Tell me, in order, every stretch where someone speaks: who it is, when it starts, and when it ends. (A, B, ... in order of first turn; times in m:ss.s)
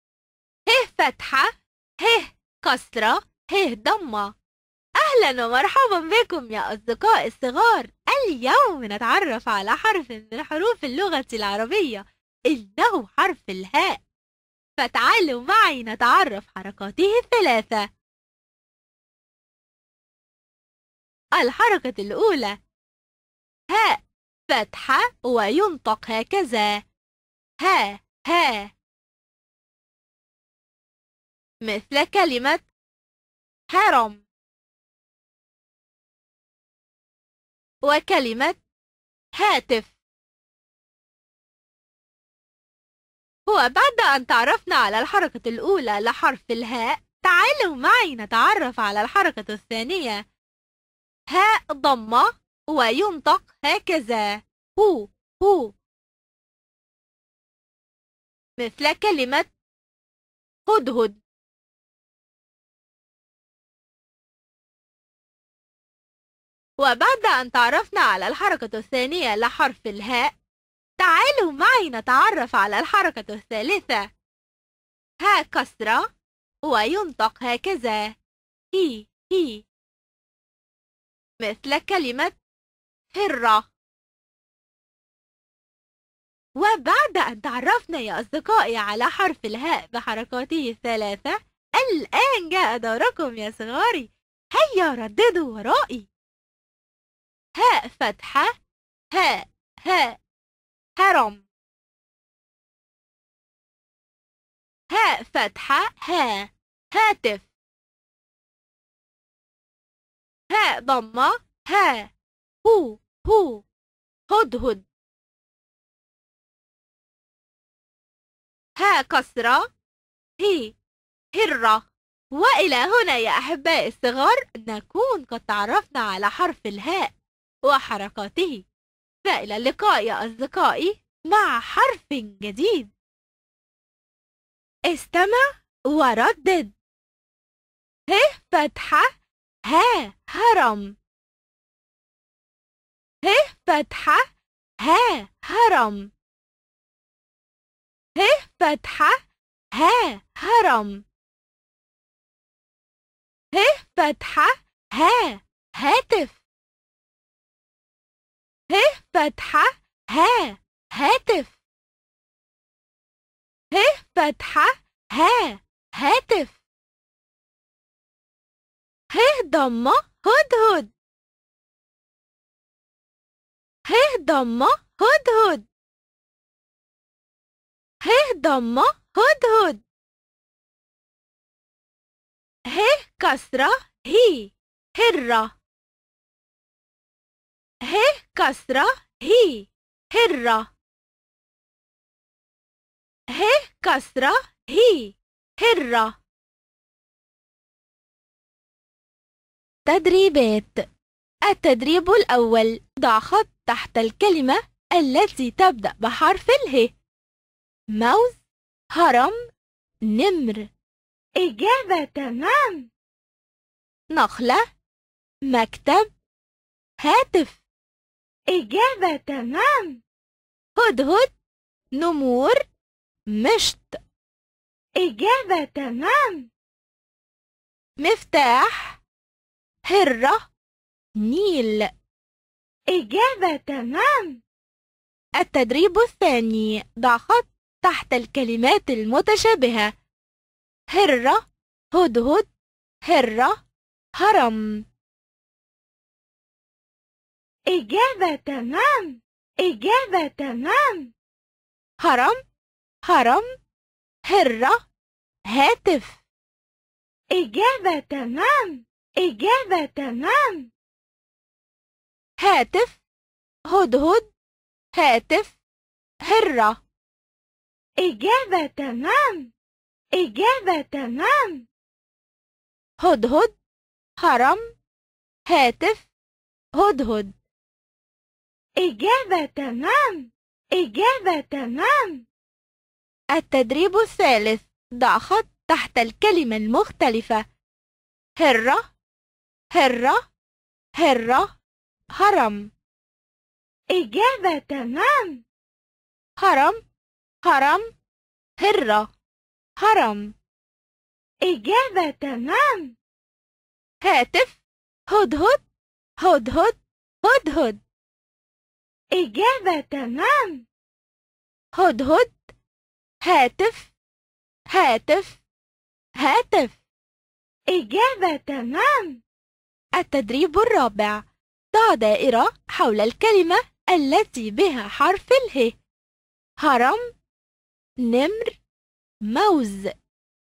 0:00.7-0:04.3 A
0:05.0-0:14.0 A
0:14.8-0:17.9 A
0:21.4-0:22.6 A
0:23.7-0:26.8 A
0:27.6-0:28.7 A
0:31.6-0:32.7 A
0:33.7-0:34.2 A
0:37.8-0:38.6 A
0:39.4-0:40.0 A
0:43.4-0:50.2 A
0:51.3-0:55.7 A
0:58.6-0:59.5 A
1:00.6-1:01.2 A
1:06.8-1:10.3 A
1:11.0-1:14.1 A
1:15.2-1:16.1 A
1:16.6-1:18.2 A
1:18.7-1:19.6 A
1:21.4-1:22.4 A
1:23.1-1:23.7 A
1:26.6-1:36.1 A
1:37.6-1:38.6 A
1:39.1-1:40.2 A
1:41.0-1:41.4 A
1:44.9-1:47.5 A
1:50.5-1:52.1 A
1:52.6-1:53.6 A
1:54.3-1:54.8 A
1:58.8-1:59.7 A
2:00.4-2:00.7 A
2:01.4-2:07.1 A
2:07.6-2:08.6 A
2:09.2-2:12.9 A
2:14.9-2:16.7 A
2:18.1-2:19.2 A
2:19.7-2:20.9 A
2:23.2-2:24.3 A
2:24.8-2:26.1 A
2:28.2-2:29.2 A
2:29.7-2:31.0 A
2:33.5-2:36.4 A
2:38.7-2:41.6 A
2:43.7-2:46.6 A
2:49.1-2:50.9 A
2:53.8-2:55.6 A
2:58.0-2:59.8 A
3:02.7-3:05.5 A
3:07.8-3:10.7 A
3:13.3-3:16.2 A
3:19.8-3:20.8 A
3:21.4-3:26.9 A
3:27.9-3:28.4 A
3:28.9-3:29.4 A
3:30.1-3:30.7 A
3:31.4-3:32.9 B
3:34.1-3:34.6 A
3:35.5-3:36.1 A
3:37.0-3:37.6 A
3:38.5-3:40.0 B
3:40.8-3:41.3 A
3:42.0-3:42.6 A
3:43.3-3:44.0 A
3:44.9-3:46.5 B
3:48.0-3:49.0 A
3:49.9-3:50.5 A
3:51.2-3:51.9 A
3:52.9-3:54.4 B
3:55.4-3:59.9 A
4:00.9-4:02.5 A
4:03.1-4:03.6 A
4:04.2-4:04.8 A
4:07.6-4:11.1 B
4:12.0-4:12.4 A
4:13.0-4:13.5 A
4:14.2-4:14.8 A
4:15.5-4:16.2 A
4:17.3-4:20.7 B
4:22.4-4:23.0 A
4:23.6-4:24.3 A
4:24.9-4:25.6 A
4:26.2-4:26.8 A
4:28.0-4:29.5 B
4:30.1-4:31.6 B
4:33.0-4:33.6 A
4:34.2-4:34.6 A
4:35.5-4:36.1 A
4:36.8-4:37.3 A
4:38.8-4:42.2 B
4:43.3-4:47.4 A
4:48.4-4:48.9 A
4:49.7-4:50.2 A
4:51.0-4:51.6 A
4:52.1-4:52.7 A
4:53.9-4:55.4 B
4:56.4-4:56.8 A
4:57.4-4:57.9 A
4:58.6-4:59.1 A
4:59.8-5:00.3 A
5:01.4-5:02.9 B
5:04.0-5:05.6 A
5:06.2-5:07.8 A
5:09.1-5:10.6 B
5:11.8-5:12.5 A
5:13.2-5:13.9 A
5:14.7-5:15.4 A
5:16.2-5:16.8 A
5:17.7-5:19.2 B
5:20.0-5:25.7 A
5:26.6-5:27.1 A
5:28.0-5:28.6 A
5:29.3-5:29.9 A